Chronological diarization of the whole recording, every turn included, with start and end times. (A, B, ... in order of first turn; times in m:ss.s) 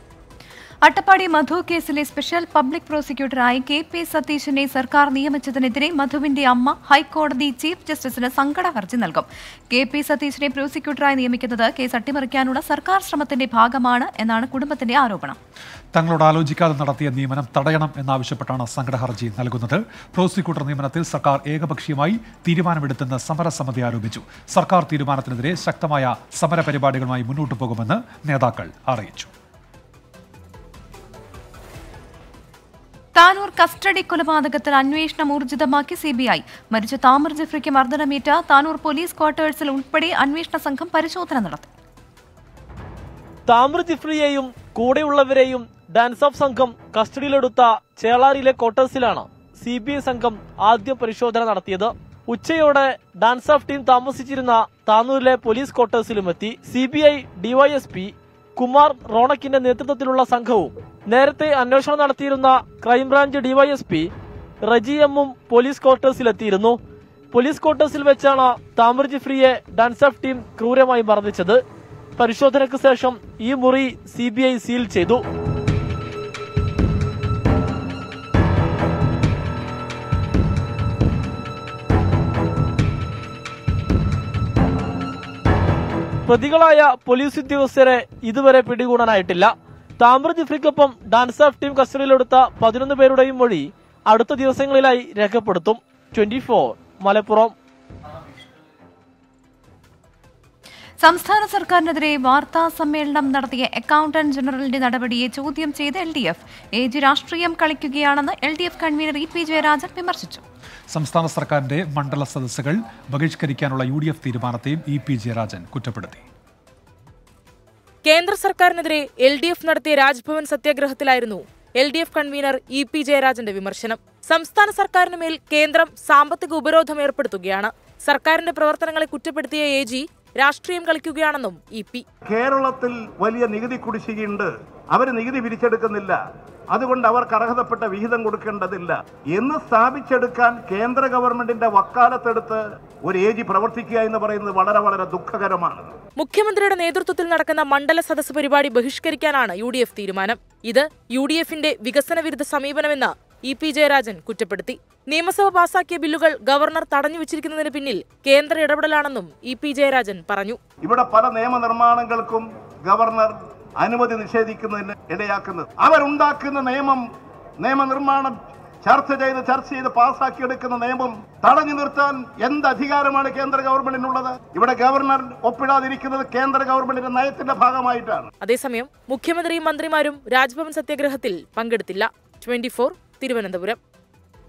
0:00.8-0:15.4 A
0:16.0-0:29.3 B
0:33.2-0:41.7 A
0:43.5-1:04.1 C
1:04.6-1:06.8 C
1:07.3-1:11.6 C
1:12.2-1:15.2 C
1:26.3-1:37.5 C
1:41.0-1:50.4 A
1:50.9-1:56.2 B
1:58.0-2:12.0 D
2:12.3-2:16.2 E
2:16.7-2:25.9 E
2:26.2-2:40.6 D
2:40.8-2:47.0 E
2:47.6-2:58.3 E
2:58.4-3:03.8 D